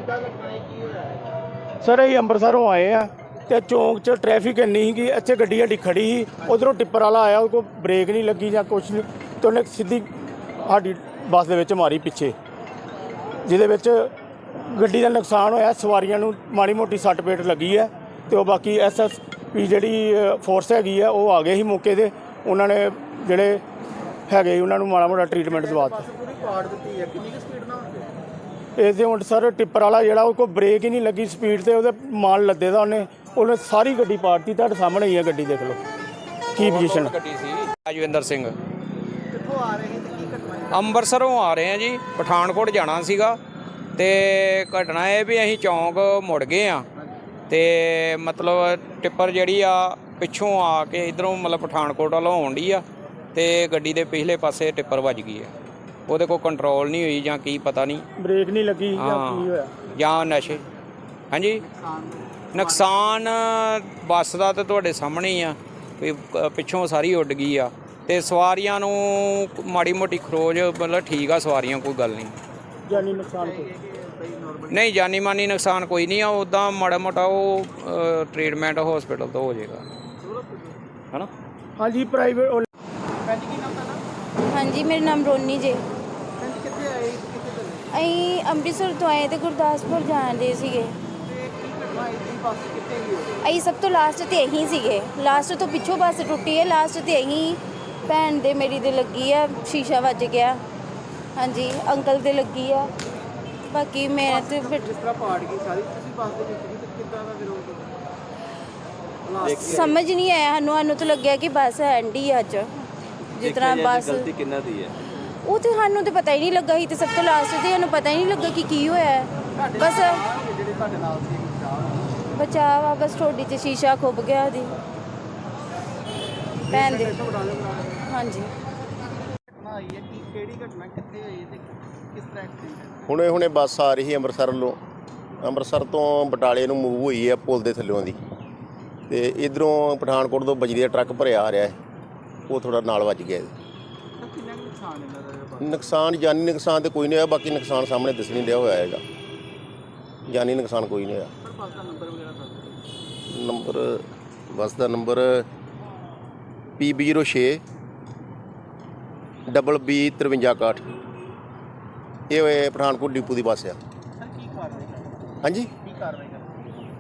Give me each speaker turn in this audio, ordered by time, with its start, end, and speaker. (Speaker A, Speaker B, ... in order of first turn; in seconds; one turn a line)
Speaker A: 0.1-0.8
Speaker B: 1.8-10.1
Speaker B: 10.6-12.3
Speaker B: 13.4-14.1
Speaker B: 14.7-23.6
Speaker B: 24.3-26.1
Speaker A: 25.4-28.1
Speaker B: 28.8-35.8
Speaker B: 36.6-37.1
Speaker C: 36.6-38.5
Speaker A: 39.3-41.0
Speaker C: 40.7-43.4
Speaker C: 44.0-46.9
Speaker C: 47.5-52.8
Speaker C: 53.4-55.5
Speaker C: 56.1-58.0
Speaker B: 58.2-59.8
Speaker C: 59.0-60.6
Speaker C: 61.3-61.6
Speaker A: 61.6-63.0
Speaker C: 62.5-72.3
Speaker B: 72.9-73.7
Speaker A: 72.9-74.9
Speaker C: 74.7-79.8
Speaker A: 80.2-80.8
Speaker B: 81.8-82.7
Speaker A: 83.2-84.0
Speaker D: 84.5-85.8
Speaker A: 86.4-87.9
Speaker D: 87.9-91.0
Speaker A: 91.2-93.5
Speaker D: 93.4-100.6
Speaker D: 101.4-102.9
Speaker D: 103.7-104.9
Speaker A: 104.3-108.0
Speaker A: 109.2-109.9
Speaker E: 109.4-109.9
Speaker D: 109.6-114.3
Speaker E: 113.4-115.0
Speaker D: 115.5-120.2
Speaker A: 119.5-122.1
Speaker D: 122.3-124.7
Speaker A: 126.7-128.0
Speaker D: 126.7-127.2
Speaker D: 128.1-128.5
Speaker A: 129.5-133.1
Speaker F: 133.1-134.8
Speaker F: 135.4-138.2
Speaker F: 139.1-141.8
Speaker F: 142.5-143.5
Speaker A: 144.2-146.0
Speaker F: 145.6-149.0
Speaker F: 150.3-151.3
Speaker A: 151.4-152.7
Speaker F: 153.3-155.4
Speaker F: 156.8-157.6
Speaker F: 159.5-160.9
Speaker F: 162.3-163.8
Speaker A: 164.2-165.3
Speaker F: 165.4-165.7
Speaker A: 165.8-166.6